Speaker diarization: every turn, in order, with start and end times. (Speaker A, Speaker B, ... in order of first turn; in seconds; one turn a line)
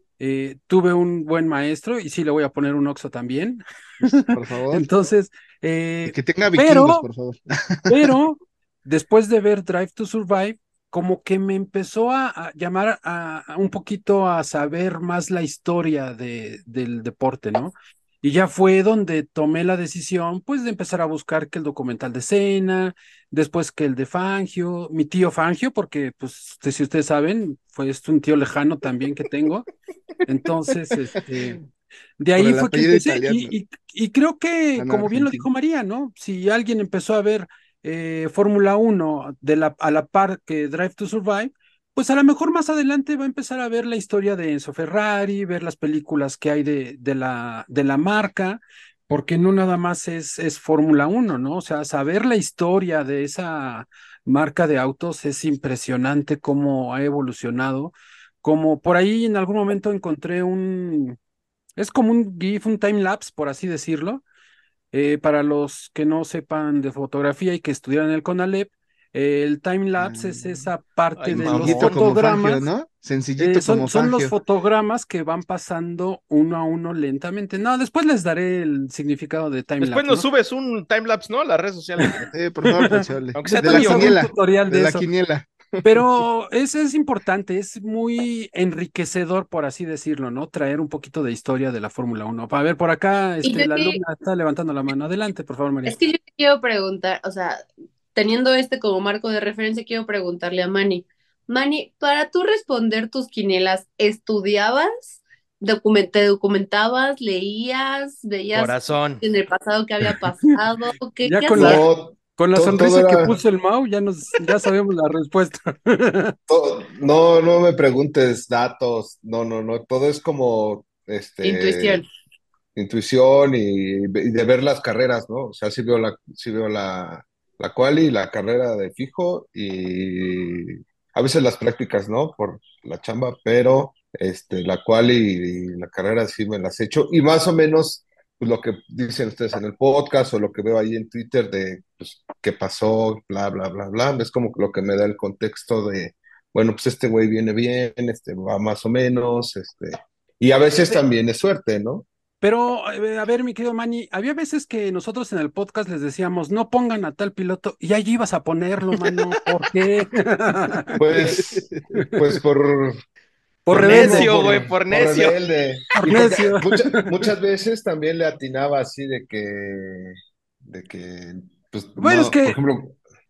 Speaker A: 0.2-7.0
Speaker B: 4.3-4.9
Speaker B: 6.1-8.1
Speaker A: 7.9-29.7
Speaker A: 30.2-31.6
Speaker B: 31.3-31.6
Speaker A: 32.2-61.2
Speaker B: 32.4-33.6
Speaker B: 34.8-35.5
Speaker A: 61.8-64.2
Speaker A: 64.9-72.7
Speaker B: 70.0-70.7
Speaker C: 71.2-72.0
Speaker B: 71.3-74.3
Speaker A: 73.4-80.2
Speaker C: 79.8-82.3
Speaker B: 82.3-86.0
Speaker A: 82.7-83.0
Speaker C: 83.3-84.2
Speaker A: 83.6-85.0
Speaker A: 85.8-96.0
Speaker D: 93.4-94.0
Speaker D: 95.8-111.8
Speaker C: 108.5-109.2
Speaker A: 111.2-111.8
Speaker E: 111.5-113.3
Speaker A: 112.3-116.3
Speaker E: 116.5-122.0
Speaker D: 121.4-122.0
Speaker E: 122.7-152.1
Speaker A: 152.4-160.9
Speaker E: 161.0-163.0
Speaker B: 161.1-161.8
Speaker A: 163.7-164.6
Speaker E: 163.7-172.9
Speaker C: 163.8-165.4
Speaker A: 166.0-167.1
Speaker A: 172.0-172.6